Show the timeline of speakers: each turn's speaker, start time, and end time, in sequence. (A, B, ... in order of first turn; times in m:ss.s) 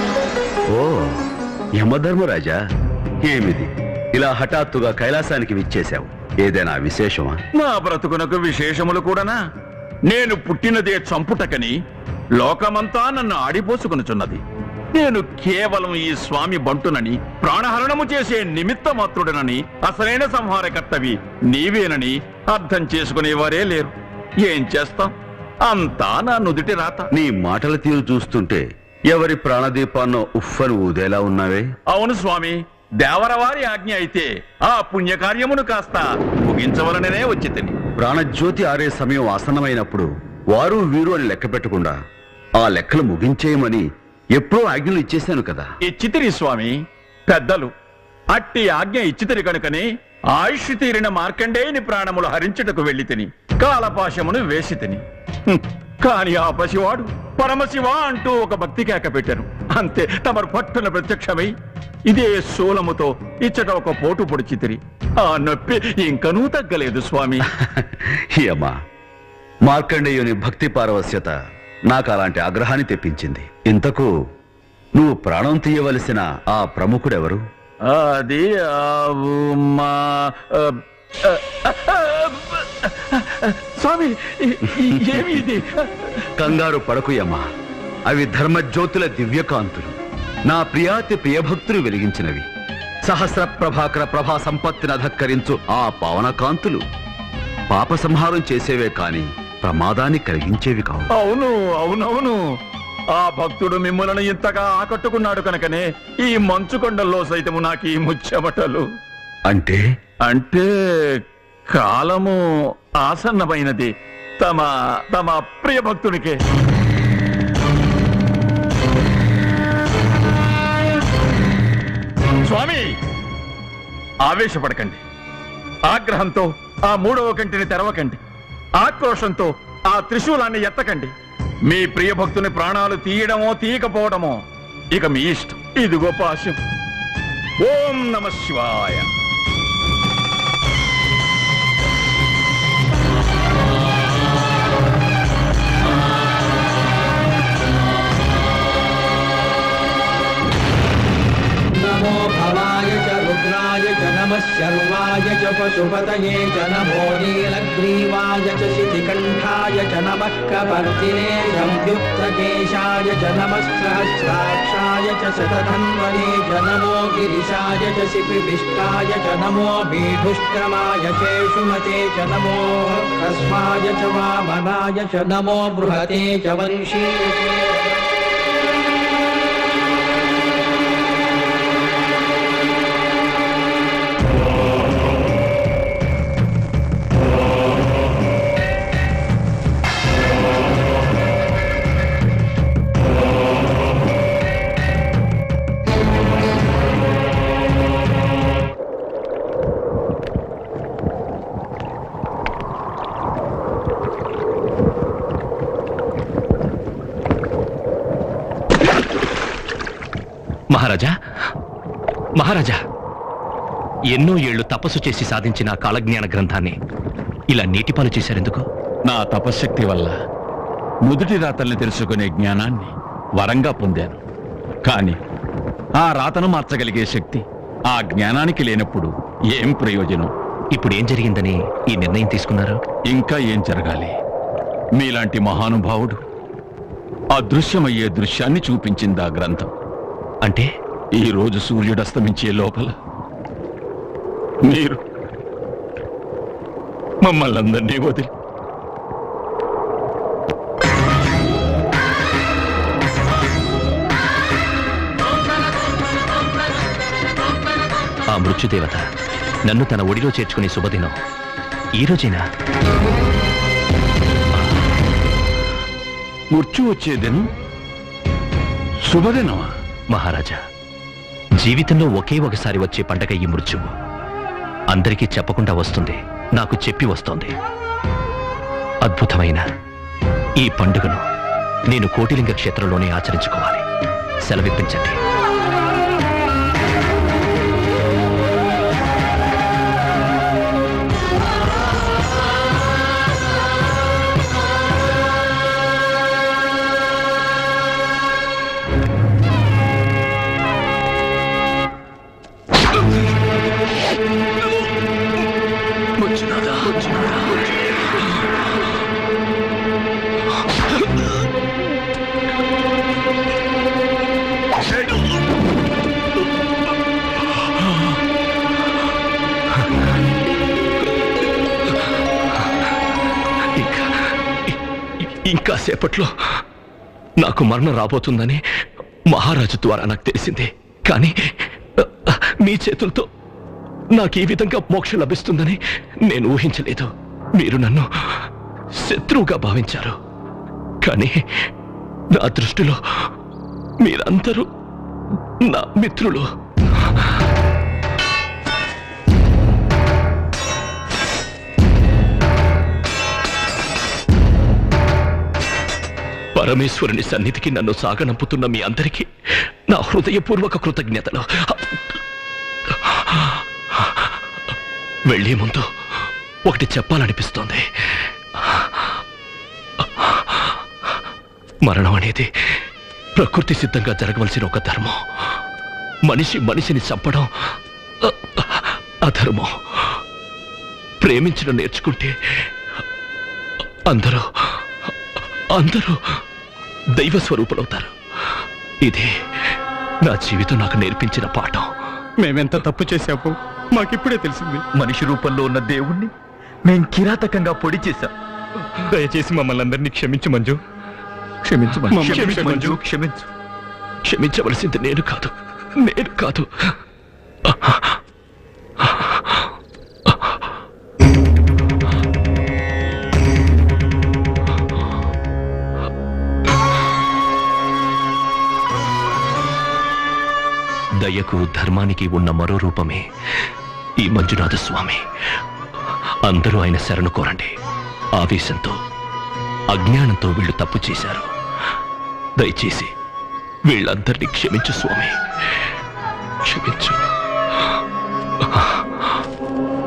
0:00.7-0:01.2 A
0:01.8-0:02.6 A
0:03.3-0:07.4 A
0:07.5-0:09.4 B
0:10.1-0:11.8 B
0:12.4-0:14.4 B
0:14.9-0:25.1 B
0:25.6-0:27.1 B
0:27.1-0:31.7 A
0:31.9-0:37.8 B
0:38.0-0:42.0 A
0:42.6-0:45.7 A
0:45.8-0:46.8 B
0:47.3-0:47.7 B
0:48.3-1:01.5 B
1:02.1-1:07.5 B
1:07.6-1:08.7 A
1:09.7-1:11.3 A
1:11.9-1:14.1 A
1:15.0-1:17.4 A
1:17.8-1:20.7 B
1:21.2-1:26.4 B
1:25.1-1:25.4 A
1:26.4-1:27.4 A
1:28.1-1:30.0 A
1:30.5-1:32.4 A
1:33.1-1:36.8 A
1:37.7-1:41.1 A
1:41.1-1:42.4 B
1:43.2-1:48.8 B
1:49.5-1:49.8 A
1:50.2-1:50.7 B
1:51.7-1:52.4 B
1:53.0-1:56.4 B
2:02.4-2:02.9 B
2:04.3-2:05.0 B
2:05.9-2:08.2 B
2:08.8-2:11.1 B
2:11.7-2:14.4 B
2:14.9-2:16.6 B
2:17.6-2:19.1 B
2:31.7-2:57.9 C
3:30.7-3:31.1 D
3:32.4-3:32.8 D
3:34.1-3:36.8 D
3:37.5-3:38.7 D
3:39.1-3:40.1 B
3:41.1-3:44.2 B
3:44.9-3:45.2 B
3:46.0-3:50.3 B
3:50.7-3:52.8 D
3:53.1-3:54.2 B
3:55.0-3:56.2 B
3:57.4-3:59.7 B
4:01.2-4:03.0 B
4:04.6-4:05.0 B
4:07.2-4:08.3 B
4:18.3-4:19.0 D
4:19.7-4:21.2 D
4:22.0-4:22.4 D
4:26.5-4:27.4 B
4:29.1-4:29.7 B
4:30.1-4:30.6 D
4:31.6-4:33.9 D
4:34.9-4:37.5 D
4:39.0-4:39.6 D
4:40.6-4:41.2 D
4:41.9-4:43.8 D
4:44.5-4:45.2 D
5:06.2-5:08.4 D
5:10.9-5:11.4 D
5:23.8-5:26.6 D
5:27.4-5:28.6 D
5:29.3-5:33.3 D
5:34.1-5:40.2 D
5:41.0-5:41.7 D
5:42.3-5:43.3 D
5:44.0-5:44.7 D
5:45.6-5:46.5 D
5:56.6-5:59.3 D
5:59.9-6:02.2 D
6:02.9-6:04.3 D
6:05.3-6:05.8 D
6:06.7-6:09.1 D
6:10.0-6:10.7 D
6:11.8-6:12.8 D
6:13.4-6:15.2 D
6:16.3-6:17.5 D
6:18.2-6:20.2 D
6:21.2-6:22.7 D
6:24.1-6:24.9 D
6:25.7-6:26.4 D
6:27.2-6:31.9 D
6:32.4-6:34.8 E
6:35.0-6:36.3 F
6:36.8-6:38.3 F
6:39.1-6:40.8 E
6:41.6-6:42.3 B
6:41.9-6:43.5 F
6:42.1-6:43.0 E
6:42.2-6:42.8 D
6:44.2-6:46.9 D
6:47.7-6:48.2 D
6:49.0-6:49.5 D
7:01.2-7:03.2 D
7:04.2-7:05.2 D
7:06.5-7:07.7 D
7:08.4-7:09.0 D
7:09.9-7:11.5 D
7:12.6-7:13.1 D
7:13.9-7:15.8 D
7:16.6-7:17.2 D
7:18.6-7:19.3 D